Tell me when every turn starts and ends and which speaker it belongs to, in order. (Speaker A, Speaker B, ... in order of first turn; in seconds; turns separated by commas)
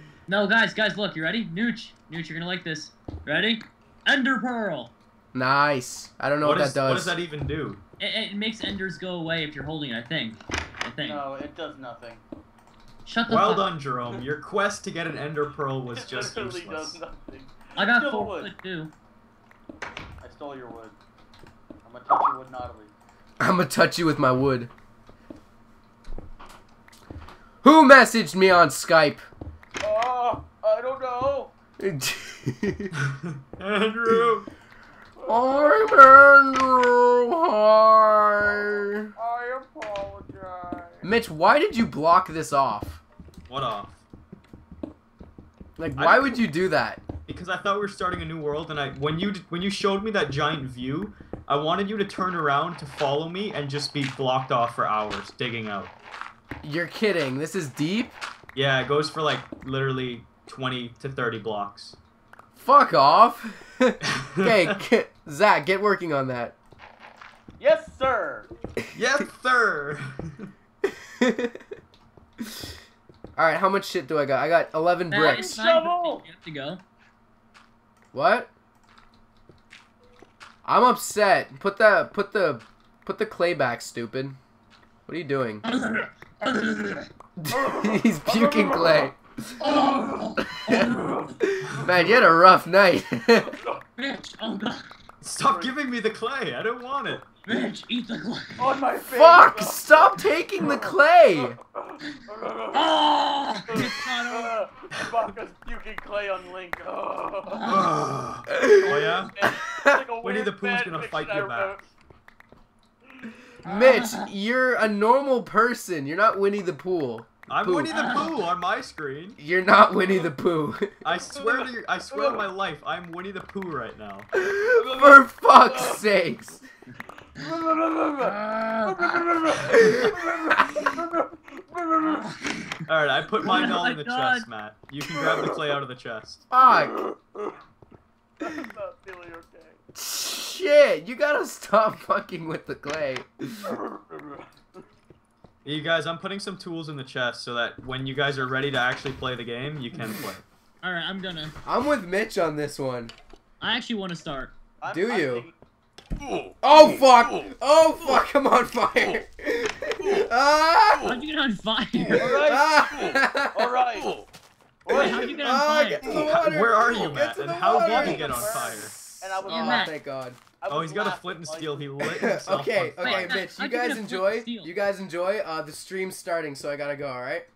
Speaker A: 0.3-4.9, Speaker B: 5.3-7.2, Speaker C: 6.4-7.8, Speaker A: 8.0-11.2, Speaker D: 11.0-12.2, Speaker A: 13.0-13.7, Speaker C: 13.3-17.0, Speaker D: 15.9-18.5, Speaker A: 17.8-18.9, Speaker D: 20.2-21.0, Speaker D: 21.8-22.9, Speaker B: 23.4-24.7, Speaker B: 27.6-29.2, Speaker D: 29.8-31.5, Speaker B: 31.8-32.9, Speaker C: 33.0-34.5, Speaker D: 35.2-36.0, Speaker B: 35.2-39.1, Speaker D: 38.4-41.1, Speaker B: 41.0-43.0, Speaker C: 43.5-44.0, Speaker B: 45.8-47.0, Speaker C: 46.0-46.4, Speaker C: 47.3-55.9, Speaker B: 56.6-58.1, Speaker C: 58.5-62.0, Speaker B: 62.5-66.5, Speaker C: 64.0-64.7, Speaker D: 67.6-68.5, Speaker C: 68.9-70.5, Speaker B: 70.8-71.7, Speaker B: 73.3-75.5, Speaker A: 75.1-76.8, Speaker D: 75.2-76.2, Speaker B: 78.1-78.5, Speaker B: 80.6-84.4, Speaker B: 85.1-85.6, Speaker A: 85.6-87.1, Speaker B: 87.4-89.2, Speaker D: 87.5-89.1, Speaker A: 89.6-91.3, Speaker D: 89.6-92.3, Speaker B: 90.4-93.5, Speaker C: 91.7-92.0, Speaker D: 93.5-93.8, Speaker A: 94.0-94.9, Speaker C: 95.2-97.3, Speaker D: 95.4-95.8, Speaker A: 97.5-98.7, Speaker D: 98.6-103.0, Speaker B: 99.1-101.6, Speaker A: 102.7-104.6, Speaker D: 103.7-107.9, Speaker A: 107.5-107.9, Speaker C: 107.7-109.3, Speaker B: 108.5-110.0, Speaker D: 108.7-111.8, Speaker C: 110.2-111.8, Speaker B: 113.6-117.9, Speaker A: 113.6-114.3, Speaker C: 117.5-119.4, Speaker A: 117.9-118.3, Speaker B: 119.4-120.9, Speaker D: 120.0-120.3, Speaker C: 121.0-124.3, Speaker D: 121.3-122.5, Speaker B: 124.3-126.6, Speaker D: 124.7-126.0, Speaker D: 127.3-132.3, Speaker B: 128.5-130.1, Speaker A: 132.2-132.6, Speaker C: 132.9-136.4, Speaker D: 133.4-133.7, Speaker A: 133.4-134.5, Speaker D: 135.1-135.6, Speaker B: 136.5-136.9, Speaker D: 136.7-137.6, Speaker D: 138.4-139.8, Speaker B: 139.9-143.7, Speaker D: 143.6-144.8, Speaker C: 145.6-150.4, Speaker A: 150.8-151.5, Speaker B: 151.7-153.1, Speaker A: 153.6-154.5, Speaker D: 154.8-155.5, Speaker B: 154.9-155.5, Speaker B: 156.6-161.2, Speaker A: 161.0-162.3, Speaker D: 162.1-164.2, Speaker B: 162.1-163.7, Speaker D: 164.8-165.6, Speaker A: 164.9-166.1, Speaker C: 164.9-165.2, Speaker B: 164.9-170.4, Speaker C: 166.1-168.9, Speaker D: 167.6-169.9, Speaker A: 169.5-169.9, Speaker D: 170.6-171.9, Speaker C: 170.7-173.4, Speaker B: 172.0-177.5, Speaker A: 173.0-174.7